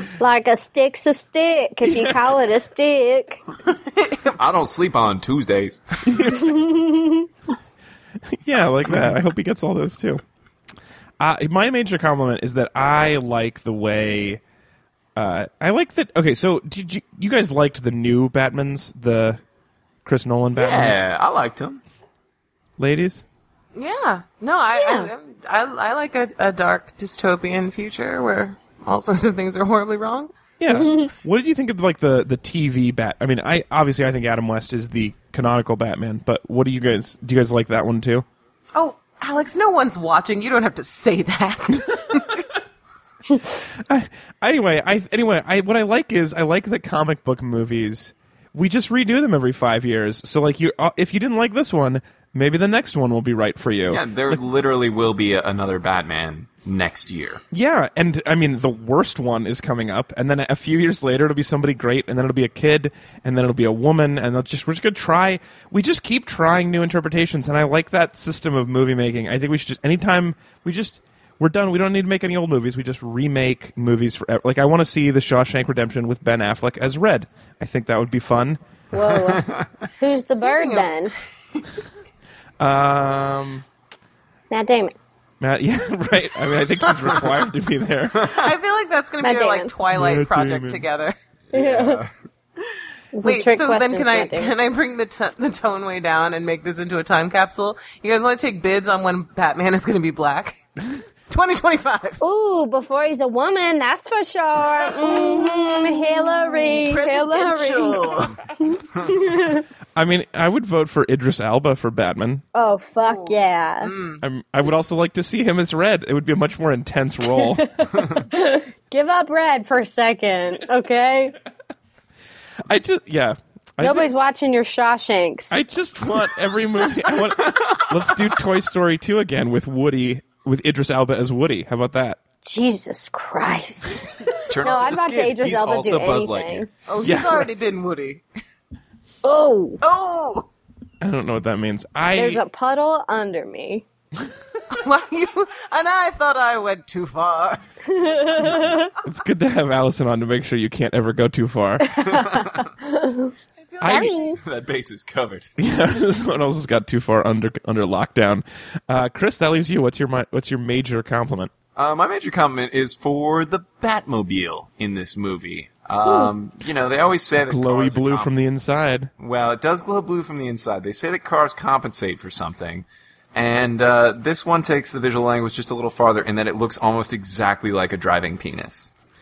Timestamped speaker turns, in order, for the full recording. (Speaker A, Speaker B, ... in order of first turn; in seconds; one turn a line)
Speaker A: 0.2-3.4
Speaker B: 1.8-2.4
Speaker C: 3.6-4.4
Speaker D: 4.3-6.3
Speaker B: 6.0-6.6
Speaker A: 6.3-7.3
Speaker B: 8.3-10.2
Speaker B: 11.2-14.4
Speaker B: 15.2-19.4
Speaker B: 20.0-21.0
Speaker D: 20.5-21.8
Speaker B: 22.8-23.2
Speaker C: 23.7-30.3
Speaker A: 24.7-25.1
Speaker B: 30.6-38.2
Speaker A: 30.7-31.1
Speaker C: 38.7-42.4
Speaker B: 43.9-54.4
Speaker D: 53.9-57.4
Speaker B: 57.5-78.6
Speaker A: 78.9-81.1
Speaker D: 79.1-79.7
Speaker C: 80.3-81.6
Speaker B: 82.6-83.6
Speaker A: 84.5-84.9
Speaker B: 85.4-88.3
Speaker D: 88.2-88.5
Speaker C: 88.2-91.2
Speaker A: 89.2-89.7
Speaker B: 89.9-90.8
Speaker D: 91.5-92.1
Speaker A: 91.5-92.0
Speaker A: 93.1-94.5
Speaker C: 93.2-100.6
Speaker C: 101.3-102.2
Speaker A: 102.2-109.6
Speaker C: 104.9-108.4
Speaker B: 110.0-112.4
Speaker A: 112.5-113.9
Speaker C: 113.0-114.2
Speaker B: 114.2-117.7
Speaker A: 117.4-121.4
Speaker B: 122.7-124.1
Speaker A: 123.8-125.6
Speaker B: 125.5-132.2
Speaker D: 127.4-128.2
Speaker A: 132.4-134.0
Speaker D: 134.4-136.7
Speaker A: 134.6-136.7
Speaker C: 136.9-138.2
Speaker B: 137.0-137.5
Speaker A: 139.2-139.8
Speaker C: 139.8-140.5
Speaker B: 141.0-142.4
Speaker A: 142.1-143.8
Speaker C: 144.7-147.6
Speaker A: 147.9-148.9
Speaker B: 149.0-152.0
Speaker D: 151.9-152.7
Speaker A: 151.9-153.3
Speaker C: 153.7-154.1
Speaker B: 153.8-154.1
Speaker A: 153.8-154.4
Speaker D: 153.8-155.6
Speaker B: 155.6-161.5
Speaker D: 161.7-168.3
Speaker A: 166.0-166.3
Speaker B: 167.4-169.1
Speaker D: 169.2-178.9